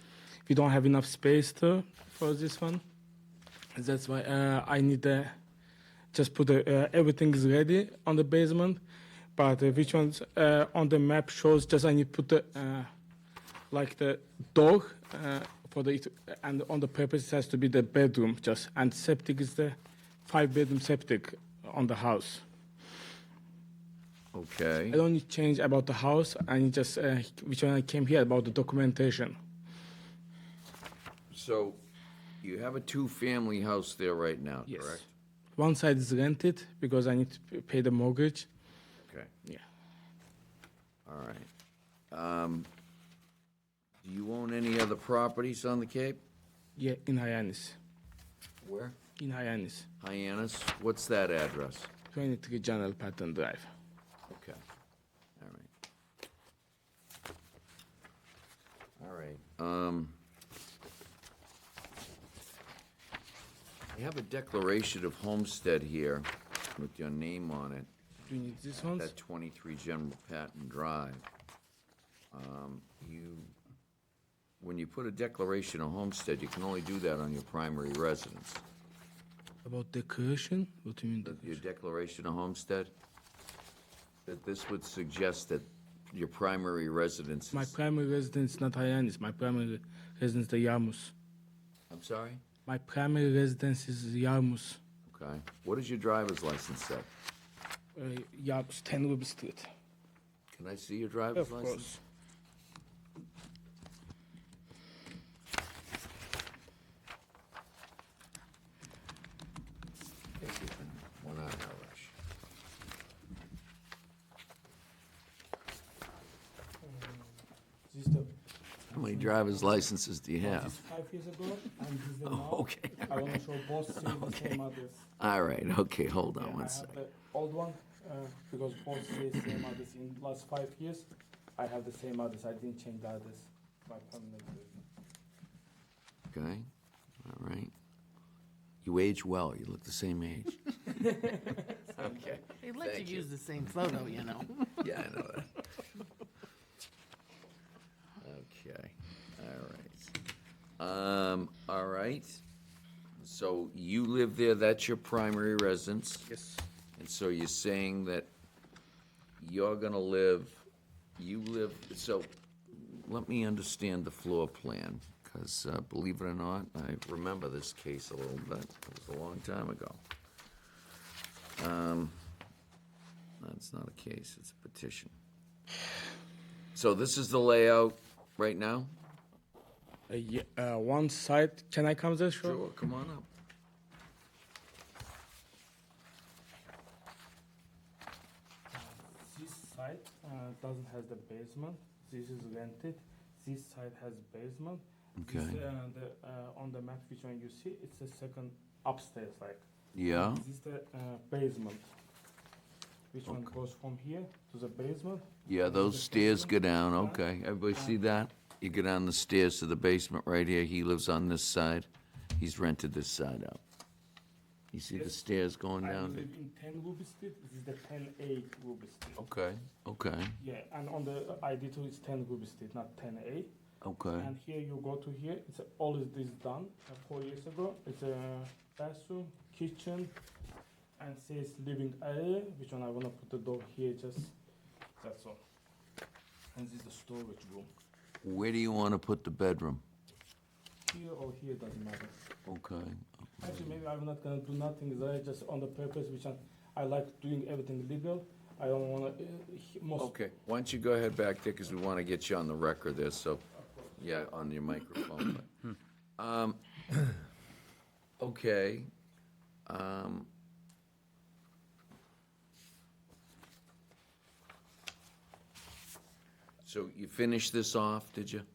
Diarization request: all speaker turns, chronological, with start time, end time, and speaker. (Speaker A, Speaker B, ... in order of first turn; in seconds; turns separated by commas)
Speaker A: 0.5-2.8, Speaker A: 3.8-5.3, Speaker A: 6.1-8.8, Speaker A: 9.3-12.9, Speaker A: 13.7-22.4, Speaker B: 24.3-25.0, Speaker A: 24.9-29.4, Speaker B: 31.3-31.8, Speaker B: 32.4-35.1, Speaker A: 34.7-35.0, Speaker A: 35.6-38.5, Speaker B: 39.0-39.3, Speaker B: 41.0-41.5, Speaker B: 42.1-42.7, Speaker B: 44.0-46.2, Speaker A: 46.8-47.8, Speaker B: 48.6-49.0, Speaker A: 49.2-49.9, Speaker B: 50.0-51.9, Speaker A: 52.1-53.7, Speaker B: 54.3-54.6, Speaker B: 55.4-55.7, Speaker B: 59.0-60.2, Speaker B: 63.9-67.9, Speaker A: 68.2-69.1, Speaker B: 68.7-71.2, Speaker B: 72.3-73.5, Speaker B: 74.6-78.6, Speaker A: 79.6-81.6, Speaker B: 81.2-82.9, Speaker B: 84.2-87.7, Speaker A: 87.5-91.1, Speaker B: 91.9-92.4, Speaker A: 92.7-94.8, Speaker B: 95.0-97.1, Speaker A: 97.9-99.7, Speaker B: 100.5-102.0, Speaker A: 101.3-102.0, Speaker B: 110.4-112.1, Speaker A: 116.8-117.3, Speaker A: 117.9-118.3, Speaker A: 118.9-119.8, Speaker B: 118.9-120.8, Speaker A: 120.4-125.1, Speaker B: 122.2-123.4, Speaker B: 123.9-124.6, Speaker B: 125.2-127.0, Speaker A: 126.4-134.8, Speaker B: 136.3-136.7, Speaker B: 137.2-137.7, Speaker B: 138.8-141.0, Speaker A: 140.9-141.8, Speaker B: 141.6-143.3, Speaker C: 142.6-144.8, Speaker B: 144.8-145.6, Speaker B: 148.2-150.2, Speaker B: 150.8-152.4, Speaker B: 153.2-156.3, Speaker A: 156.3-156.6, Speaker B: 157.0-158.3, Speaker B: 159.4-160.7, Speaker B: 161.2-170.0, Speaker B: 171.6-172.2, Speaker B: 173.4-175.1, Speaker B: 176.7-178.9, Speaker A: 180.1-182.6, Speaker B: 182.4-183.3, Speaker A: 188.7-201.9, Speaker B: 195.2-195.6, Speaker B: 199.9-200.4, Speaker A: 203.1-207.2, Speaker B: 203.2-203.6, Speaker B: 205.4-213.6, Speaker B: 214.7-216.3, Speaker A: 214.9-215.2, Speaker A: 215.8-219.2, Speaker B: 219.2-220.4, Speaker A: 220.4-223.5, Speaker B: 223.8-224.3, Speaker A: 224.2-230.1, Speaker A: 231.0-234.3, Speaker A: 235.0-235.4, Speaker A: 236.5-237.7, Speaker B: 238.2-239.8, Speaker A: 240.8-242.2, Speaker B: 242.4-243.8, Speaker A: 243.4-250.1, Speaker B: 250.0-253.4, Speaker B: 253.9-255.6, Speaker B: 256.2-257.1, Speaker B: 258.2-258.9, Speaker B: 259.6-260.3, Speaker B: 266.6-268.4